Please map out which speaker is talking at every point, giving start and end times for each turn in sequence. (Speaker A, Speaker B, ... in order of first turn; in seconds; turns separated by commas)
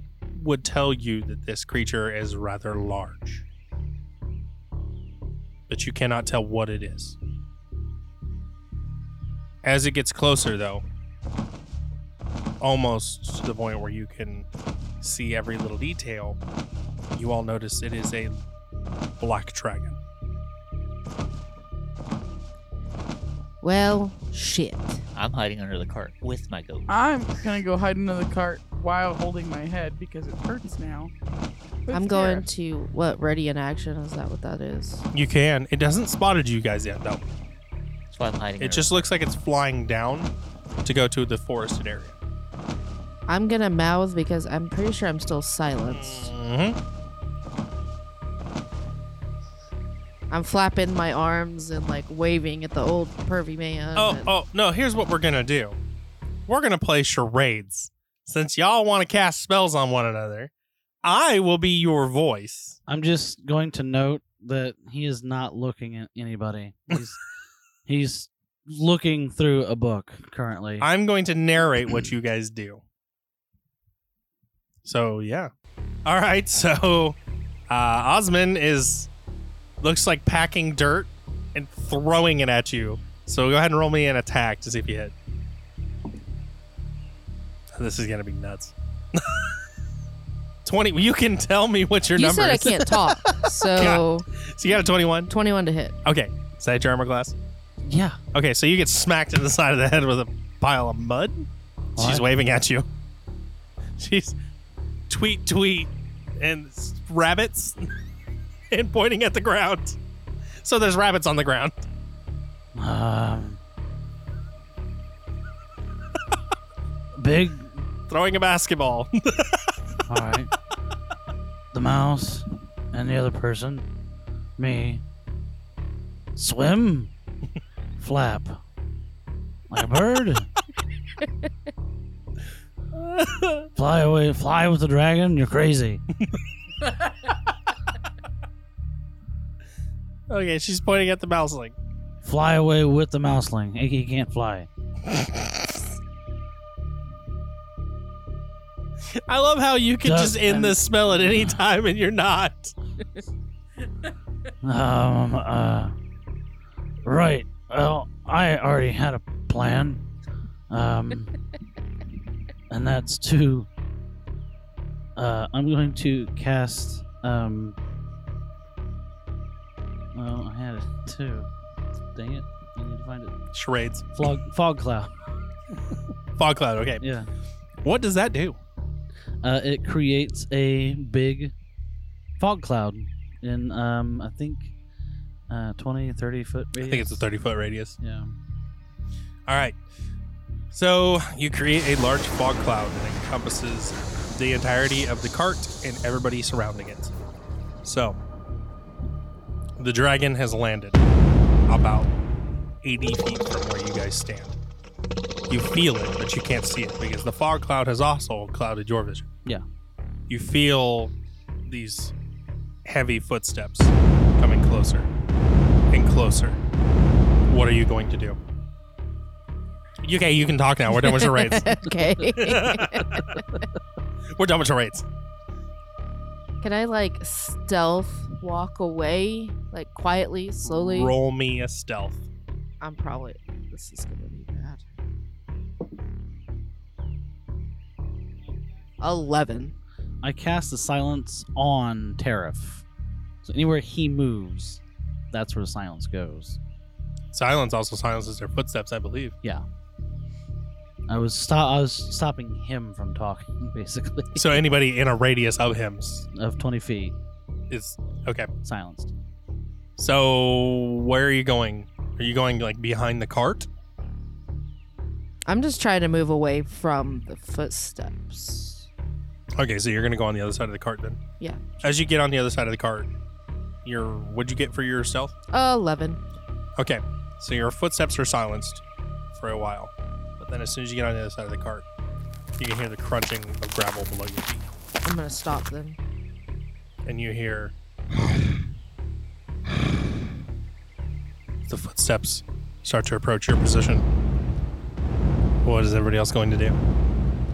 Speaker A: 0.3-3.5, Speaker A: 5.7-7.2, Speaker A: 9.6-10.8, Speaker A: 12.6-14.5, Speaker A: 15.0-16.4, Speaker A: 17.1-18.4, Speaker A: 19.2-20.0, Speaker B: 23.6-25.0, Speaker C: 25.1-26.9, Speaker D: 26.9-31.1, Speaker D: 31.9-32.5, Speaker B: 31.9-35.0, Speaker A: 35.1-37.3, Speaker C: 38.1-39.0, Speaker A: 38.6-40.3, Speaker A: 40.8-42.2, Speaker B: 43.3-46.3, Speaker A: 45.9-46.8, Speaker B: 50.3-54.3, Speaker A: 54.0-55.8, Speaker A: 56.5-60.5, Speaker A: 61.0-62.8, Speaker E: 62.9-67.2, Speaker E: 67.9-70.9, Speaker A: 70.8-72.8, Speaker A: 74.8-75.5, Speaker A: 76.0-77.2, Speaker A: 77.7-79.1, Speaker A: 79.8-85.1, Speaker A: 87.8-89.4, Speaker A: 90.7-95.3, Speaker B: 92.2-94.3, Speaker B: 95.3-96.0, Speaker A: 96.0-97.3, Speaker E: 97.8-98.2, Speaker A: 98.3-102.9, Speaker E: 102.0-102.3, Speaker A: 104.0-104.4, Speaker A: 105.1-107.9, Speaker A: 108.7-110.0, Speaker A: 110.6-111.8, Speaker E: 112.8-113.6, Speaker E: 117.2-117.8, Speaker A: 118.1-119.6, Speaker E: 120.1-120.5, Speaker E: 121.7-123.9, Speaker E: 124.6-125.0, Speaker E: 126.4-127.1, Speaker E: 128.0-128.6, Speaker E: 129.7-130.5, Speaker A: 132.9-133.7, Speaker E: 133.8-136.0, Speaker A: 140.3-141.8, Speaker E: 142.2-144.7, Speaker A: 145.1-145.6, Speaker A: 149.3-152.7, Speaker E: 150.0-151.5, Speaker E: 154.6-155.9, Speaker E: 157.0-160.0, Speaker E: 160.7-161.3, Speaker E: 162.7-163.7, Speaker E: 165.2-167.8, Speaker E: 170.1-171.5, Speaker E: 172.2-173.4, Speaker A: 173.5-174.1, Speaker E: 174.2-175.1, Speaker A: 176.4-177.0, Speaker E: 177.0-177.3, Speaker A: 177.8-178.6, Speaker E: 179.4-181.5, Speaker E: 182.4-184.7, Speaker E: 185.5-187.2, Speaker A: 186.8-188.0, Speaker E: 188.0-188.3, Speaker A: 189.5-189.8, Speaker A: 190.7-197.1, Speaker A: 197.8-198.2, Speaker A: 199.8-201.1, Speaker A: 201.7-202.1, Speaker A: 202.8-204.6, Speaker A: 205.5-209.3, Speaker A: 210.3-211.1, Speaker A: 211.7-212.1, Speaker A: 212.8-215.1, Speaker A: 215.9-216.6, Speaker A: 217.5-218.4, Speaker A: 220.0-223.4, Speaker B: 221.0-223.4, Speaker A: 224.3-225.1, Speaker B: 226.6-231.1, Speaker A: 230.7-232.2, Speaker B: 232.8-234.8, Speaker B: 239.0-239.8, Speaker E: 240.2-242.8, Speaker E: 243.4-246.6, Speaker A: 247.3-249.4, Speaker E: 251.1-254.6, Speaker A: 254.3-256.3, Speaker E: 256.3-257.1, Speaker A: 257.7-258.5, Speaker E: 258.6-259.1, Speaker A: 260.0-263.7, Speaker B: 265.5-268.9, Speaker A: 269.6-271.2, Speaker B: 271.4-271.8, Speaker A: 271.8-273.1, Speaker A: 273.9-275.3, Speaker B: 275.5-276.2, Speaker A: 276.8-278.8, Speaker A: 279.3-281.9, Speaker A: 282.6-284.7, Speaker B: 285.1-286.0, Speaker A: 287.1-287.7, Speaker A: 291.7-294.1, Speaker A: 295.6-296.8